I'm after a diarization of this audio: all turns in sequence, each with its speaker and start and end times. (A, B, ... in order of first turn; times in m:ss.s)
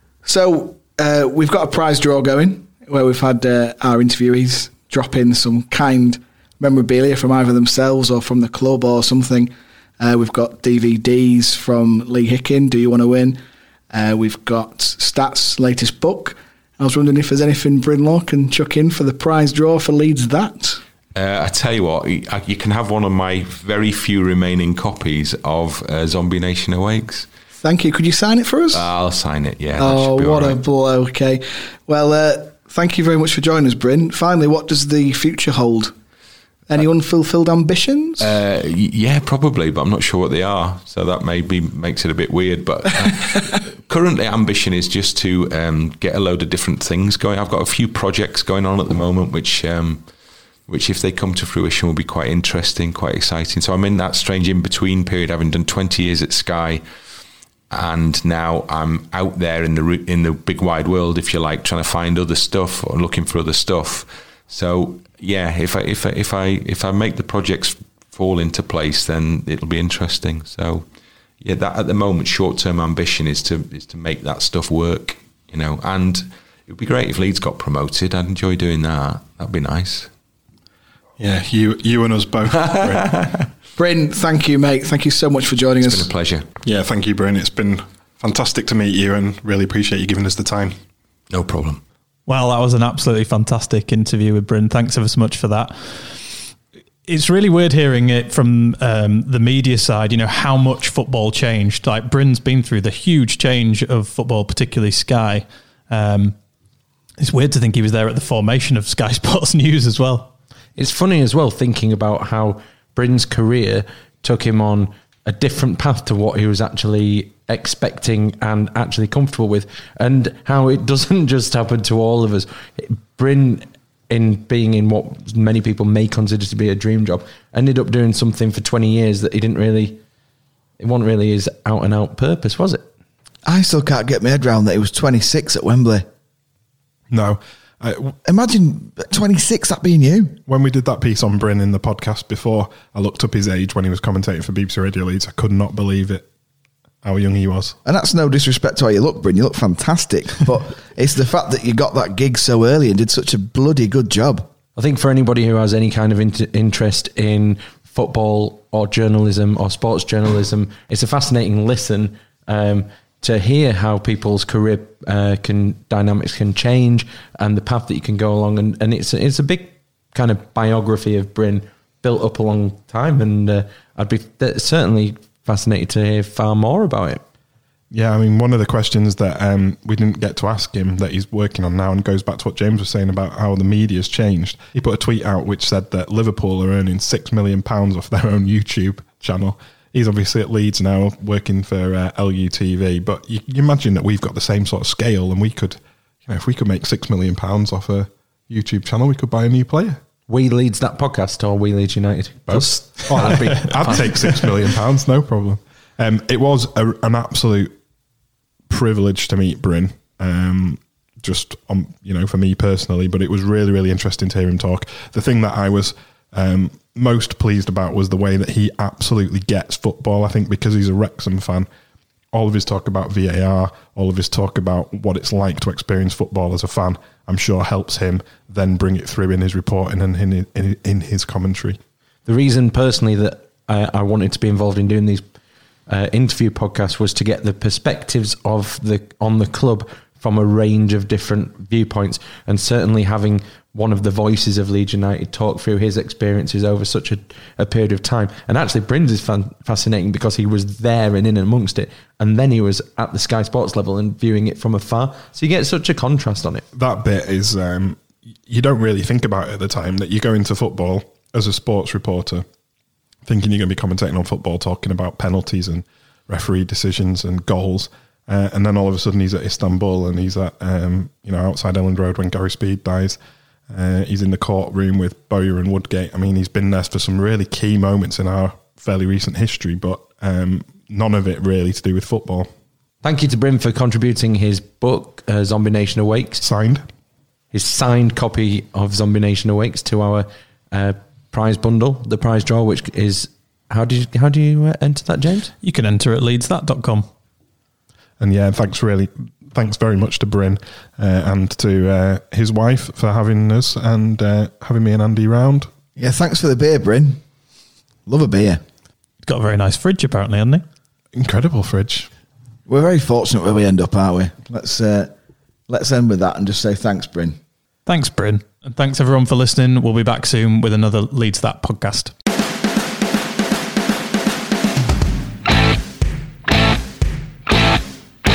0:00.2-0:13.4 A
0:13.9-0:20.8 A
0:21.2-0:27.3 B
0:27.6-0:28.9 A
0:28.7-0:30.6 B
0:29.8-0:35.9 A
0:36.7-0:38.3 A
0:38.2-0:50.0 B
0:50.7-0:56.8 B
0:57.7-1:10.8 B
1:11.4-1:20.1 B
1:21.2-1:23.1 C
1:22.6-1:23.4 B
1:23.8-1:26.1 A
1:25.8-1:26.5 B
1:26.6-1:30.8 C
1:31.3-1:31.8 B
1:32.3-1:36.3 D
1:37.1-1:46.4 D
1:47.2-1:50.3 D
1:50.8-2:10.0 E
2:10.8-2:12.9 E
2:13.5-2:16.1 F
2:17.1-2:18.2 C
2:18.2-2:20.4 F
2:20.5-2:26.3 C
2:27.0-2:27.8 C
2:27.8-2:34.5 F
2:34.8-2:57.2 E
2:57.9-3:20.0 C
3:20.3-3:24.5 E
3:22.5-3:27.7 C
3:28.7-3:41.7 C
3:42.3-3:51.8 C
3:52.3-3:55.2 E
3:55.9-4:16.6 E
4:16.8-4:22.4 C
4:23.2-4:33.2 C
4:33.7-4:42.5 C
4:43.0-4:46.4 E
4:46.4-4:46.9 C
4:47.5-4:55.5 E
4:55.6-4:57.1 D
4:58.2-5:05.7 C
5:06.0-5:07.2 F
5:08.1-5:08.6 F
5:09.2-5:10.6 D
5:11.2-5:12.1 C
5:12.7-5:15.1 F
5:15.7-5:17.4 F
5:17.9-5:22.1 D